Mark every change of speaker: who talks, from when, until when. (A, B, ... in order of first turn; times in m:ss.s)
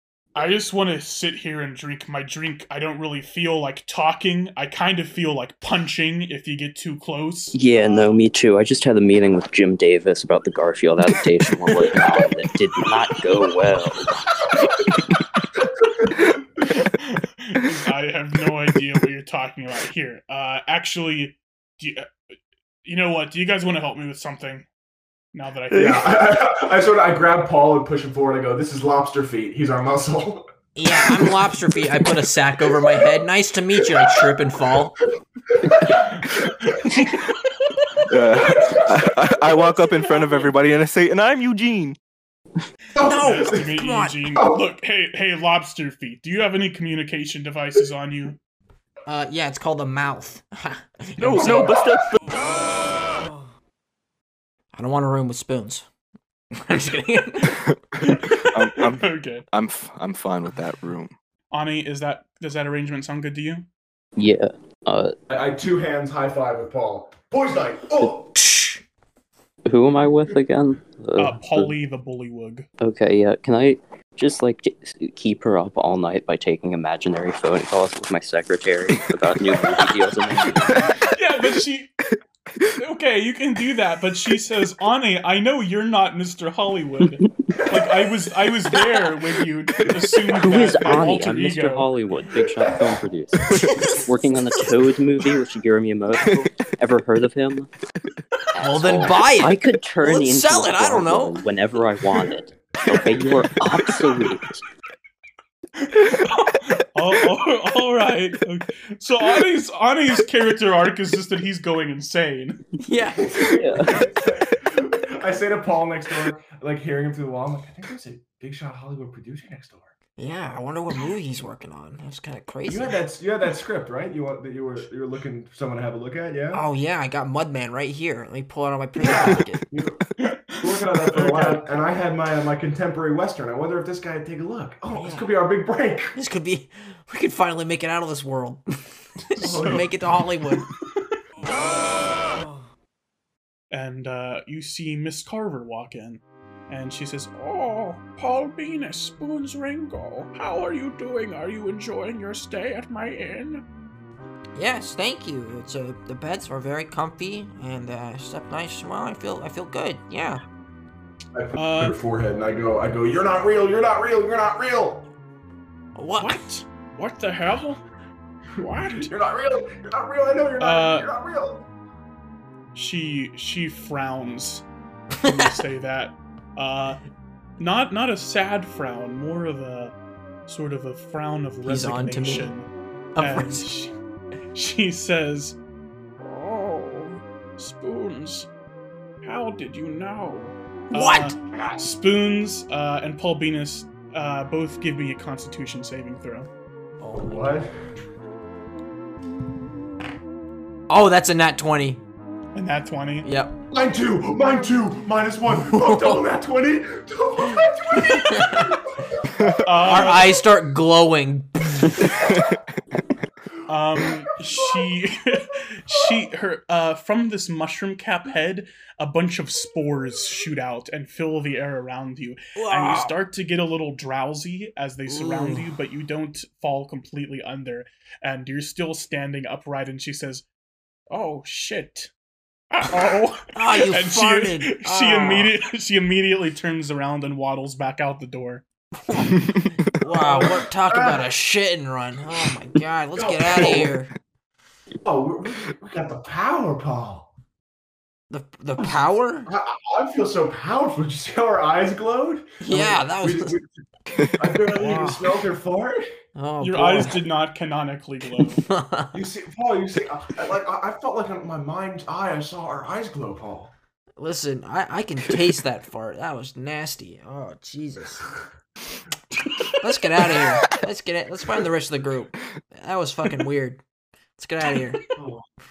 0:00.4-0:08.1 A
0:07.5-0:14.2 B
0:16.9-0:22.1 A
0:22.8-0:24.7 A
0:25.3-0:26.3 A
0:25.7-0:31.3 C
0:30.8-0:35.0 D
0:35.6-0:36.5 C
0:36.7-0:37.1 A
0:38.1-0:42.0 E
0:38.3-0:39.1 C
0:43.0-0:43.7 C
0:43.0-0:44.2 D
0:43.0-0:48.4 A
0:44.3-0:44.6 C
0:49.1-0:51.8 D
0:51.2-0:52.2 E
0:51.4-0:51.8 C
0:54.7-0:55.9 D
0:56.6-0:57.6 D
0:57.5-1:01.2 E
0:58.0-0:59.5 A
1:01.5-1:03.7 A
1:04.2-1:05.2 B
1:05.3-1:08.3 C
1:08.4-1:08.8 D
1:09.7-1:11.8 B
1:11.2-1:12.7 A
1:12.8-1:20.9 B
1:20.7-1:21.0 E
1:21.0-1:21.9 A
1:22.8-1:31.9 A
1:27.0-1:27.6 B
1:30.3-1:37.7 B
1:33.5-1:33.9 E
1:38.5-1:44.6 B
1:38.6-1:41.4 D
1:45.8-1:52.6 A
1:52.8-1:53.8 D
1:53.3-1:59.9 C
1:53.5-1:54.0 B
2:00.2-2:03.0 D
2:02.7-2:06.6 C
2:06.5-2:09.6 D
2:09.0-2:10.1 C
2:10.2-2:11.7 A
2:10.6-2:16.2 C
2:14.9-2:15.3 D
2:16.2-2:18.6 D
2:19.3-2:20.7 D
2:19.4-2:19.9 A
2:19.4-2:19.9 C
2:20.6-2:20.8 A
2:23.7-2:33.6 A
2:34.6-2:40.4 D
2:41.4-2:45.0 C
2:41.5-2:42.0 A
2:46.0-2:46.5 D
2:46.2-2:47.8 A
2:48.6-2:49.1 A
2:48.6-2:51.6 C
2:50.6-2:51.1 A
2:52.8-2:54.7 A
2:55.2-2:57.0 A
2:55.2-2:55.5 D
2:57.6-3:00.0 A
3:00.5-3:02.7 A
3:01.7-3:02.5 D
3:03.2-3:03.7 D
3:03.2-3:03.9 A
3:04.5-3:05.6 A
3:06.3-3:08.5 A
3:09.2-3:16.5 A
3:10.9-3:11.4 D
3:17.0-3:17.7 D
3:17.2-3:17.7 C
3:20.9-3:22.0 D
3:22.5-3:23.3 A
3:23.2-3:23.5 D
3:23.7-3:29.6 C
3:25.7-3:26.2 D
3:28.1-3:28.7 D
3:29.6-3:30.4 A
3:29.8-3:32.2 D
3:32.1-3:32.5 E
3:33.7-3:50.4 A
3:42.6-3:43.2 D
3:45.1-3:45.7 D
3:51.1-3:52.1 A
3:52.7-3:58.6 A
3:53.5-3:55.5 D
3:59.0-4:04.1 D
4:00.1-4:01.2 C
4:03.1-4:03.9 C
4:05.0-4:07.3 C
4:08.3-4:09.5 D
4:09.5-4:13.7 C
4:12.6-4:13.6 D
4:14.4-4:16.0 C
4:14.7-4:15.3 D
4:16.4-4:17.2 D
4:16.6-4:18.7 A
4:18.4-4:19.2 D
4:19.1-4:23.7 C
4:24.2-4:28.3 D
4:29.8-4:33.8 D
4:34.4-4:35.0 D
4:35.2-4:35.4 C